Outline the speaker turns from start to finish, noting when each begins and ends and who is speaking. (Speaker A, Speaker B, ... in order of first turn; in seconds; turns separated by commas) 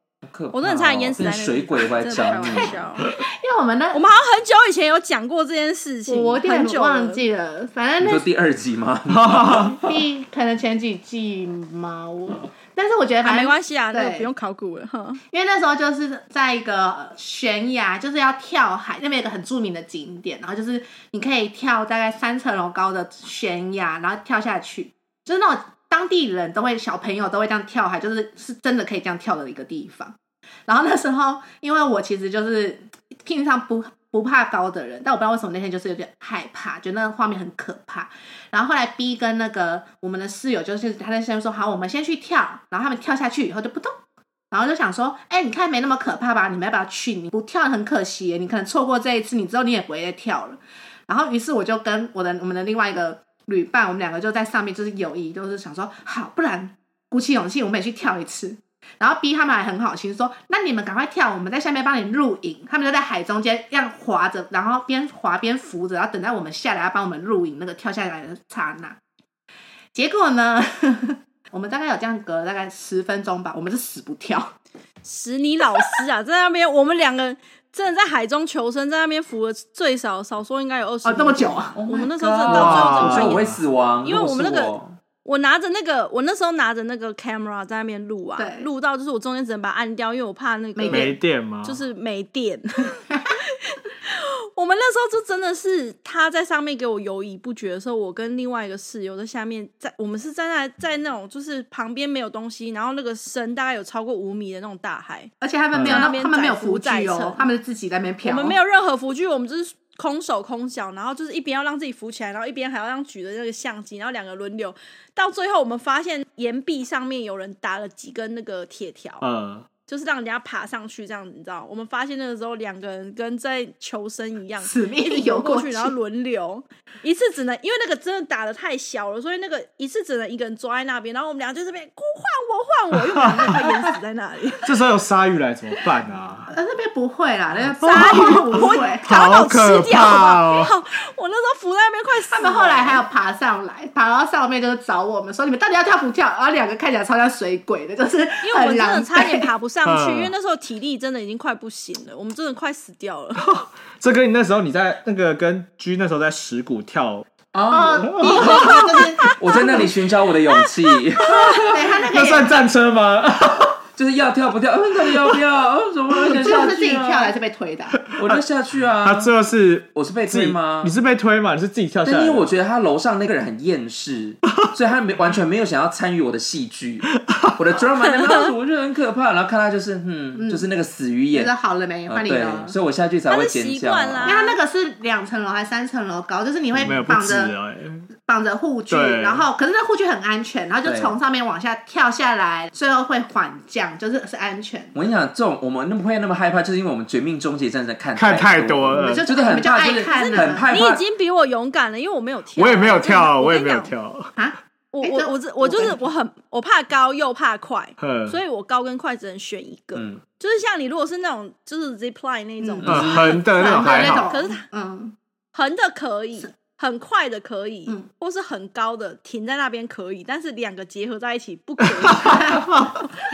Speaker A: 0.2-2.8, Speaker B: 0.5-3.1, Speaker C: 2.1-4.0, Speaker B: 3.9-7.2, Speaker C: 6.1-8.3, Speaker A: 8.0-9.8, Speaker D: 9.1-9.7, Speaker C: 9.6-14.3, Speaker B: 13.2-15.2, Speaker C: 15.3-30.1, Speaker C: 30.7-43.9, Speaker C: 44.5-69.0, Speaker C: 69.9-74.5, Speaker B: 75.0-107.5, Speaker C: 81.0-81.8, Speaker A: 81.7-85.0, Speaker D: 82.5-83.6, Speaker C: 88.4-88.7, Speaker C: 90.8-91.1, Speaker D: 90.9-91.8, Speaker C: 105.4-108.6, Speaker D: 105.7-106.1, Speaker B: 108.2-119.2, Speaker D: 119.2-119.7, Speaker B: 119.9-134.7, Speaker C: 124.6-125.9, Speaker D: 133.2-133.5, Speaker D: 134.6-136.5, Speaker C: 136.5-139.1, Speaker B: 137.8-143.0, Speaker D: 137.9-138.4, Speaker D: 139.0-140.7, Speaker C: 142.3-149.5, Speaker B: 148.4-153.4, Speaker D: 149.8-150.3, Speaker D: 153.4-157.2, Speaker A: 157.5-162.0, Speaker C: 157.7-159.9, Speaker D: 158.1-158.6, Speaker D: 161.3-163.8, Speaker C: 161.7-162.7, Speaker A: 163.9-167.3, Speaker D: 166.2-166.7, Speaker C: 166.2-168.0, Speaker D: 168.1-168.4, Speaker A: 168.1-169.3, Speaker D: 169.0-172.5, Speaker A: 169.9-170.9, Speaker A: 172.0-181.5, Speaker C: 180.3-180.6, Speaker C: 181.3-182.8, Speaker A: 182.1-184.4, Speaker B: 183.3-184.6, Speaker C: 184.2-187.5, Speaker A: 186.7-187.0, Speaker D: 186.8-188.0, Speaker C: 188.2-194.9, Speaker D: 188.9-189.4, Speaker A: 190.8-191.1, Speaker A: 194.9-201.0, Speaker D: 198.2-199.2, Speaker C: 198.9-200.7, Speaker B: 200.1-203.9, Speaker D: 202.6-204.3, Speaker C: 204.3-206.0, Speaker B: 204.9-214.6, Speaker D: 208.0-208.4, Speaker A: 209.9-210.2, Speaker C: 212.6-215.1, Speaker A: 212.8-213.4, Speaker D: 212.8-214.3, Speaker B: 215.5-222.6, Speaker D: 222.0-222.8, Speaker C: 222.0-223.0